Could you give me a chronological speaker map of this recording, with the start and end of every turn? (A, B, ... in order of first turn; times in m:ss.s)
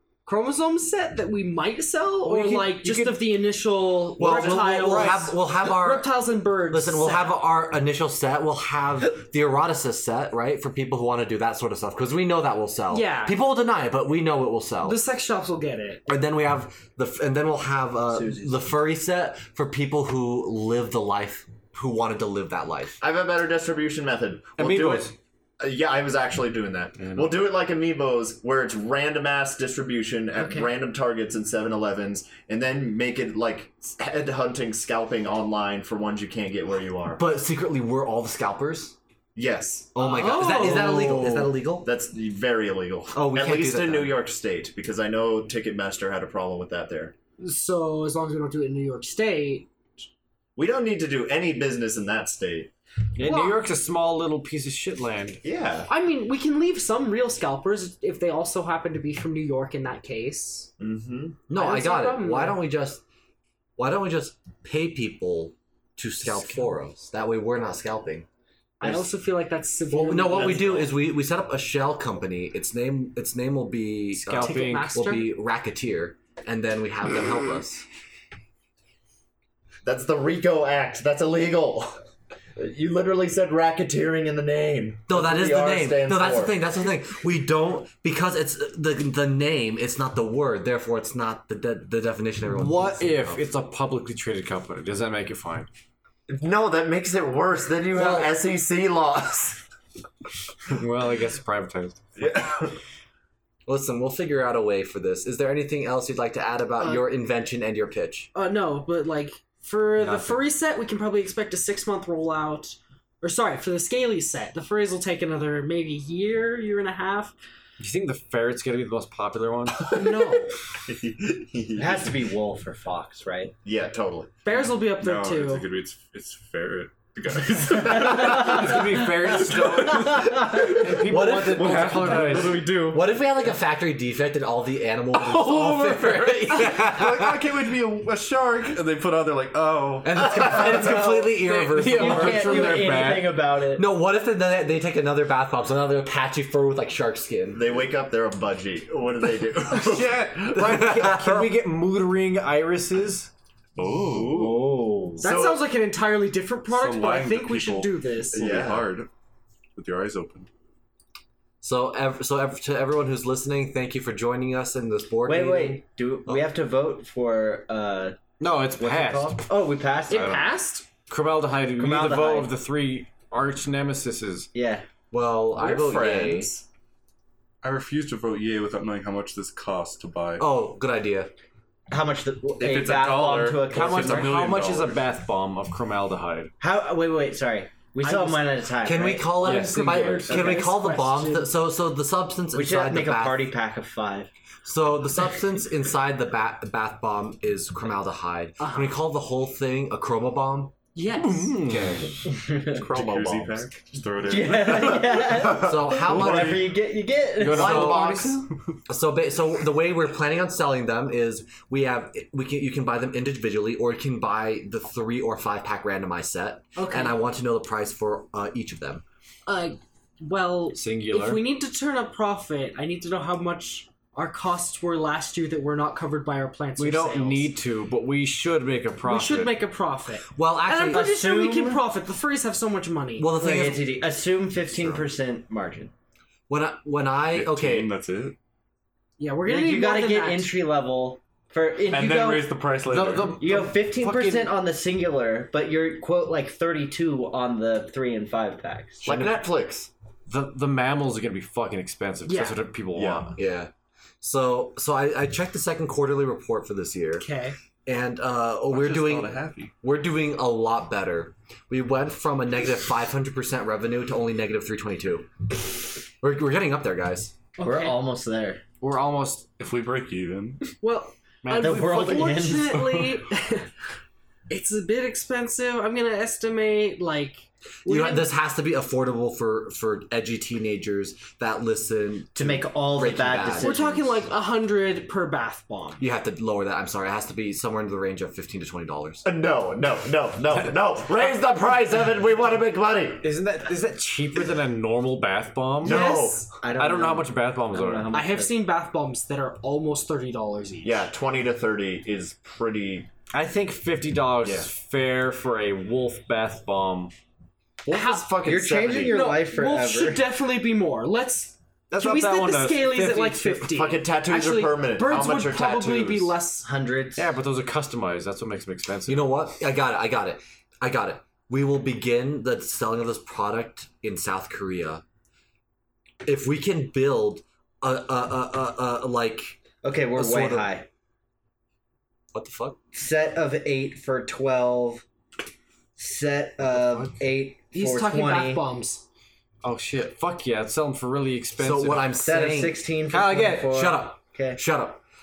0:00.3-0:07.3 A
0:02.2-0:03.4 B
0:04.2-0:15.0 C
0:04.2-0:05.3 B
0:12.9-0:13.4 A
0:14.8-0:16.0 A
0:16.1-0:23.0 C
0:18.1-0:18.6 D
0:23.0-0:37.2 E
0:24.6-0:25.1 B
0:27.0-0:27.4 B
0:30.4-0:30.7 A
0:37.2-0:39.0 C
0:39.4-0:40.4 E
0:40.0-0:41.9 C
0:40.0-0:41.4 A
0:40.5-0:41.2 B
0:41.8-0:47.1 E
0:43.1-0:44.2 C
0:47.4-0:49.7 A
0:50.6-0:52.7 E
0:53.2-0:55.4 B
0:53.2-0:53.6 A
0:55.4-0:55.9 E
0:55.9-1:00.7 A
1:00.8-1:01.4 E
1:01.5-1:03.0 C
1:01.5-1:02.6 A
1:03.8-1:08.3 C
1:08.8-1:10.8 A
1:09.9-1:17.8 C
1:10.4-1:10.8 E
1:14.2-1:14.9 B
1:14.4-1:15.3 A
1:19.8-1:22.0 E
1:22.6-1:26.6 E
1:25.1-1:33.5 C
1:32.5-1:35.7 B
1:36.3-1:39.6 E
1:37.9-1:38.4 C
1:40.7-1:42.0 B
1:42.2-1:42.7 E
1:43.7-1:48.3 C
1:46.8-1:47.1 A
1:48.4-1:57.4 A
1:50.0-1:50.4 B
1:57.8-1:59.9 B
1:59.9-2:00.3 E
1:59.9-2:00.5 A
2:00.8-2:02.2 E
2:01.8-2:03.5 D
2:03.6-2:04.4 E
2:04.4-2:05.7 A
2:04.9-2:11.0 F
2:08.0-2:13.0 B
2:11.0-2:17.4 C
2:11.6-2:12.8 F
2:15.1-2:16.4 B
2:16.2-2:20.8 F
2:20.0-2:22.9 C
2:20.8-2:23.4 B
2:20.9-2:21.2 D
2:21.9-2:23.9 D
2:23.7-2:27.7 C
2:27.5-2:30.2 E
2:29.8-2:33.3 B
2:30.6-2:31.4 C
2:33.8-2:34.5 F
2:33.8-2:35.6 E
2:34.4-2:35.2 D
2:35.2-2:38.4 A
2:36.7-2:39.1 F
2:38.4-2:39.0 E
2:39.8-2:40.5 F
2:41.6-2:46.4 C
2:45.2-2:50.5 D
2:48.4-2:49.5 B
2:50.1-2:50.9 A
2:50.1-2:50.4 B
2:51.1-2:54.5 B
2:51.8-2:52.5 D
2:54.5-2:54.9 D
2:55.1-2:56.5 C
2:55.6-2:56.7 E
2:57.6-3:00.4 F
3:00.4-3:01.3 C
3:01.9-3:04.4 D
3:02.6-3:05.1 F
3:03.7-3:06.5 B
3:06.6-3:09.8 D
3:08.0-3:08.4 A
3:08.8-3:13.5 C
3:09.4-3:10.6 B
3:10.3-3:11.5 A
3:10.3-3:10.6 E
3:12.5-3:14.3 D
3:14.6-3:20.7 C
3:18.6-3:19.0 A
3:21.0-3:21.6 A
3:21.1-3:22.3 B
3:21.7-3:22.2 C
3:22.3-3:22.8 D
3:22.7-3:26.7 F
3:22.9-3:24.0 E
3:24.2-3:28.1 D
3:25.4-3:26.7 C
3:27.4-3:28.4 B
3:27.4-3:28.5 E
3:27.5-3:28.2 C
3:28.9-3:39.0 C
3:36.8-3:37.2 A
3:39.5-3:47.5 A
3:40.8-3:41.4 B
3:46.8-3:49.6 B
3:49.0-3:53.3 A
3:50.3-3:51.1 C
3:50.9-3:51.9 D
3:53.2-3:54.1 C
3:53.3-3:55.9 D
3:56.5-3:57.9 C
3:57.3-3:58.4 F
3:59.2-4:00.6 A
3:59.5-4:02.6 D
4:01.9-4:03.4 F
4:02.8-4:04.5 B
4:03.4-4:09.4 D
4:09.0-4:09.9 E
4:10.3-4:13.4 B
4:12.2-4:12.6 A
4:12.9-4:13.3 E
4:13.4-4:17.3 C
4:17.2-4:17.6 A
4:17.9-4:25.3 C
4:18.7-4:19.7 F
4:26.2-4:27.4 C
4:27.6-4:28.0 A
4:27.6-4:28.6 D
4:28.8-4:29.5 B
4:29.5-4:30.7 F
4:30.8-4:33.7 A
4:31.4-4:32.8 B
4:31.5-4:33.0 D
4:34.5-4:38.3 A
4:37.8-4:43.8 C
4:42.3-4:44.2 D
4:43.6-4:46.0 A
4:46.0-4:49.3 C
4:49.2-4:53.3 E
4:53.2-4:56.1 B
4:55.8-4:56.5 E
4:55.8-4:56.5 A
4:56.6-4:58.6 D
4:56.8-4:58.1 B
4:58.1-5:01.1 A
5:00.8-5:03.1 E
5:03.3-5:07.1 B
5:04.4-5:04.7 E
5:07.8-5:09.2 E
5:07.9-5:08.3 A
5:08.4-5:10.2 D
5:09.1-5:16.7 A
5:11.9-5:13.7 B
5:13.7-5:16.4 E
5:16.6-5:17.3 D
5:17.2-5:19.4 B
5:19.1-5:25.0 C
5:26.2-5:29.6 C
5:29.8-5:30.9 D
5:30.1-5:30.7 C
5:32.3-5:32.8 C
5:32.9-5:35.0 D
5:36.0-5:38.6 D
5:36.7-5:37.2 B
5:37.7-5:39.0 A
5:39.6-5:42.1 B
5:41.6-5:42.9 C
5:42.1-5:44.6 D
5:43.1-5:43.8 B
5:43.5-5:45.0 C